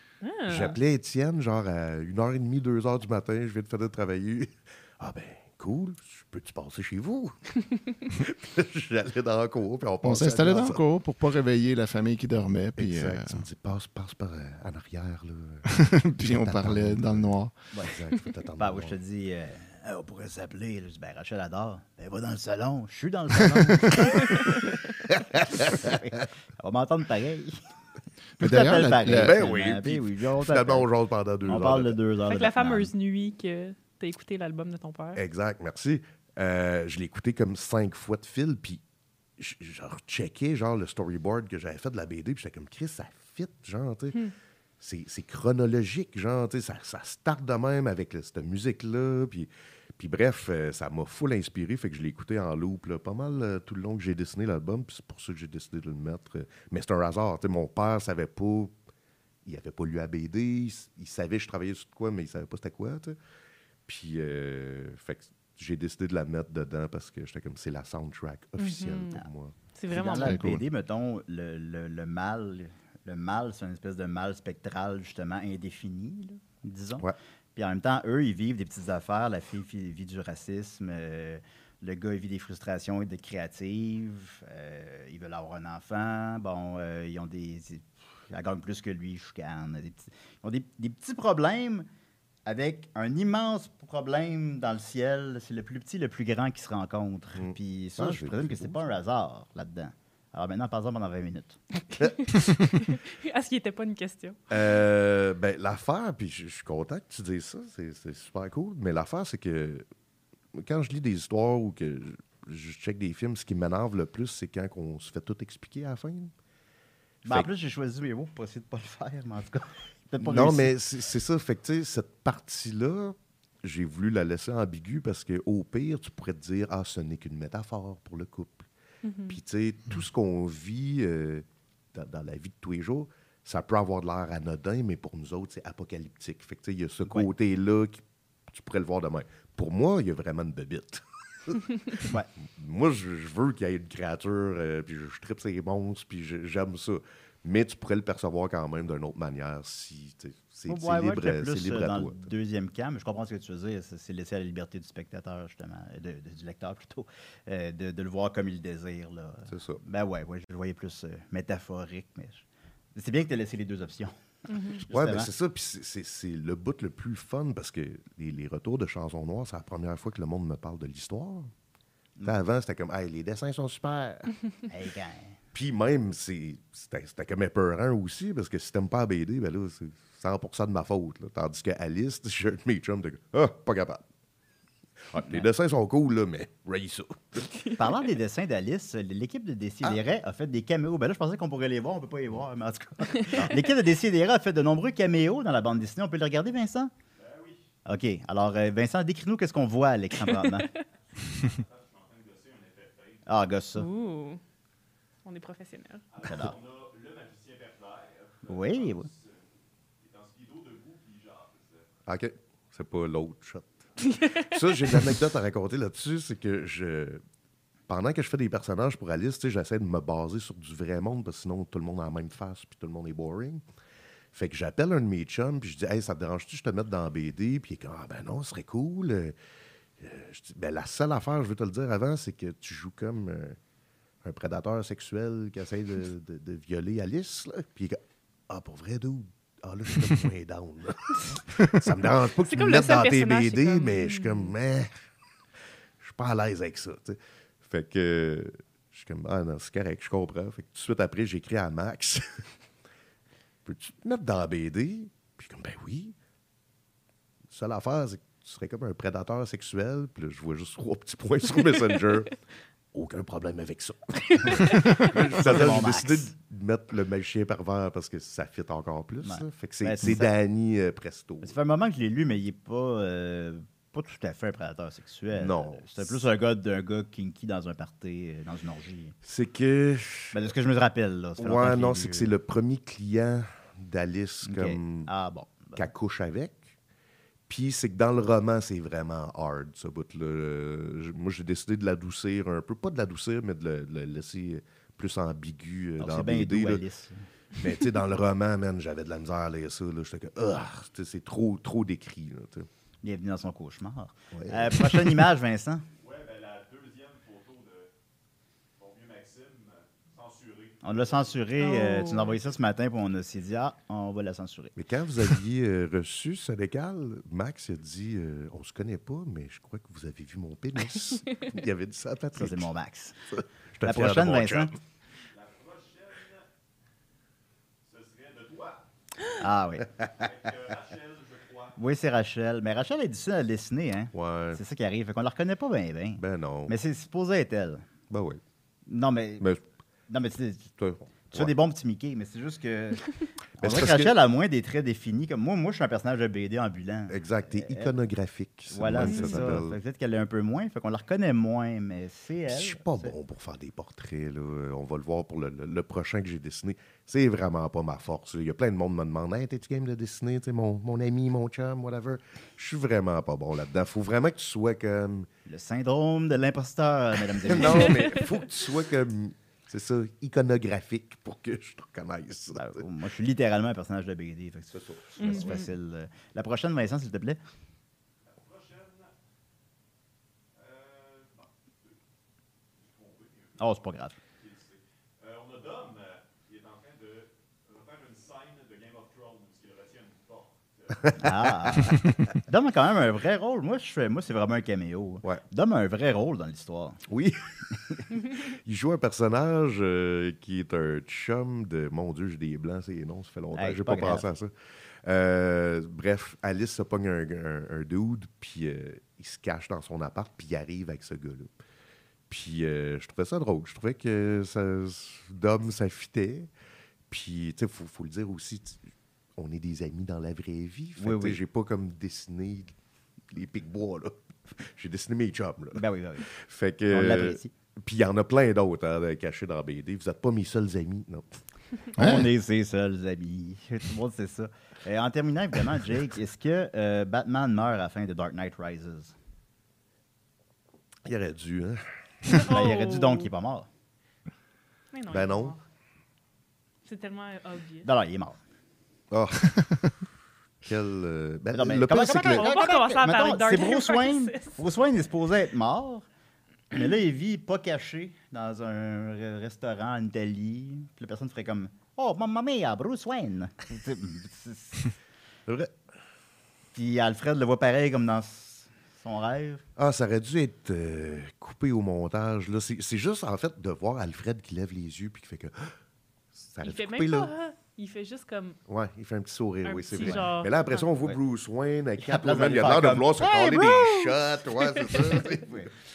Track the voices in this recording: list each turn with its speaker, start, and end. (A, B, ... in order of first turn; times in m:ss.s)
0:00.2-0:00.8 A
0:00.4-0:10.8 B
0:10.0-0:13.4 C
0:12.8-0:19.0 B
0:15.7-0:17.6 C
0:17.7-0:18.0 D
0:18.6-0:24.7 D
0:25.1-0:25.9 B
0:25.3-0:27.6 D
0:28.4-0:29.3 C
0:28.4-0:30.9 D
0:29.0-0:32.0 B
0:31.4-0:32.9 D
0:32.3-0:35.2 A
0:35.1-0:38.8 B
0:39.4-0:44.2 B
0:44.8-0:58.7 B
0:59.4-1:03.2 B
1:03.9-1:09.6 B
1:08.6-1:09.2 A
1:09.8-1:10.5 A
1:09.9-1:31.9 D
1:10.2-1:10.6 C
1:32.4-1:41.6 D
1:37.4-1:38.8 B
1:41.8-1:44.4 A
1:44.5-1:49.9 B
1:50.5-1:56.3 B
1:57.2-2:00.7 D
2:00.2-2:08.7 B
2:09.0-2:09.4 A
2:09.3-2:32.3 B
2:22.0-2:22.3 D
2:30.7-2:45.3 D
2:39.5-2:39.8 B
2:44.5-2:44.8 A
2:44.9-2:51.5 B
2:52.2-2:54.3 B
2:54.7-2:55.4 D
2:55.5-3:04.0 B
3:05.1-3:07.5 B
3:07.8-3:16.9 D
3:17.1-3:17.7 E
3:17.8-3:20.7 D
3:21.1-3:23.3 E
3:23.3-3:23.9 D
3:23.8-3:24.4 A
3:25.2-3:26.0 A
3:26.1-3:29.4 E
3:26.2-3:26.5 D
3:28.5-3:29.1 D
3:30.0-3:31.9 E
3:32.1-3:37.2 B
3:34.1-3:34.6 A
3:37.9-3:43.6 B
3:44.3-3:49.4 B
3:50.0-3:53.6 B
3:54.2-4:05.0 B
4:02.4-4:04.5 A
4:06.0-4:12.4 B
4:13.6-4:16.1 B
4:17.5-4:22.4 B
4:22.9-4:31.5 B
4:24.4-4:26.3 D
4:29.2-4:30.3 D
4:31.4-4:39.2 D
4:35.3-4:36.2 B
4:39.2-4:40.5 B
4:40.3-4:42.3 D
4:41.4-4:45.1 B
4:44.4-4:45.9 D
4:45.7-4:46.7 B
4:47.5-4:56.8 B
4:56.0-4:57.3 D
4:57.5-5:02.7 B
5:03.0-5:05.9 D
5:04.3-5:05.2 B
5:06.0-5:07.9 E
5:08.8-5:11.4 E
5:10.8-5:14.7 D
5:11.6-5:12.3 A
5:14.8-5:22.7 B
5:22.4-5:23.2 D
5:23.3-5:24.7 B
5:23.8-5:24.7 D
5:25.2-5:26.5 E
5:27.8-5:28.9 E
5:29.4-5:29.9 D
5:30.1-5:31.8 E
5:31.8-5:37.8 D
5:34.1-5:34.6 B
5:36.2-5:36.7 B
5:38.1-5:38.4 B
5:38.9-5:39.5 D
5:40.1-5:40.7 D
5:40.8-5:41.5 B
5:41.3-5:48.0 D
5:43.6-5:44.1 B
5:47.1-5:49.8 B
5:48.7-5:53.1 D
5:49.0-5:49.5 A
5:52.5-6:05.3 B
6:05.4-6:08.0 D
6:07.4-6:12.8 B
6:07.6-6:08.2 A
6:12.6-6:17.4 D
6:14.7-6:15.6 B
6:15.2-6:15.7 A
6:18.3-6:19.1 E
6:20.6-6:22.0 E
6:22.7-6:23.6 E
6:23.6-6:24.2 D
6:24.3-6:31.1 E
6:31.1-6:32.0 B
6:31.1-6:37.0 D
6:37.1-6:44.5 B
6:43.6-6:44.3 D
6:45.0-6:51.5 B
6:52.3-6:56.5 B
6:57.1-6:58.8 B
6:59.4-7:02.7 B
7:01.0-7:01.4 D
7:03.3-7:11.4 B
7:05.7-7:06.3 D
7:06.9-7:07.5 D
7:11.9-7:19.1 D
7:12.0-7:12.3 C
7:21.0-7:22.6 B
7:22.3-7:23.3 A
7:22.4-7:23.7 D
7:24.9-7:25.6 A
7:25.1-7:25.6 B
7:26.9-7:27.9 A
7:27.8-7:28.4 D
7:29.1-7:29.6 B
7:30.6-7:32.5 B
7:31.5-7:36.0 D
7:32.2-7:34.6 A
7:36.7-7:44.9 D
7:45.5-7:45.7 B
7:46.7-7:49.6 D
7:49.8-7:55.8 B
7:56.3-7:57.3 B
7:56.6-7:58.6 A
7:58.7-8:05.7 B
7:59.6-8:00.9 A
8:00.0-8:00.2 D
8:02.0-8:04.1 D
8:05.1-8:05.7 D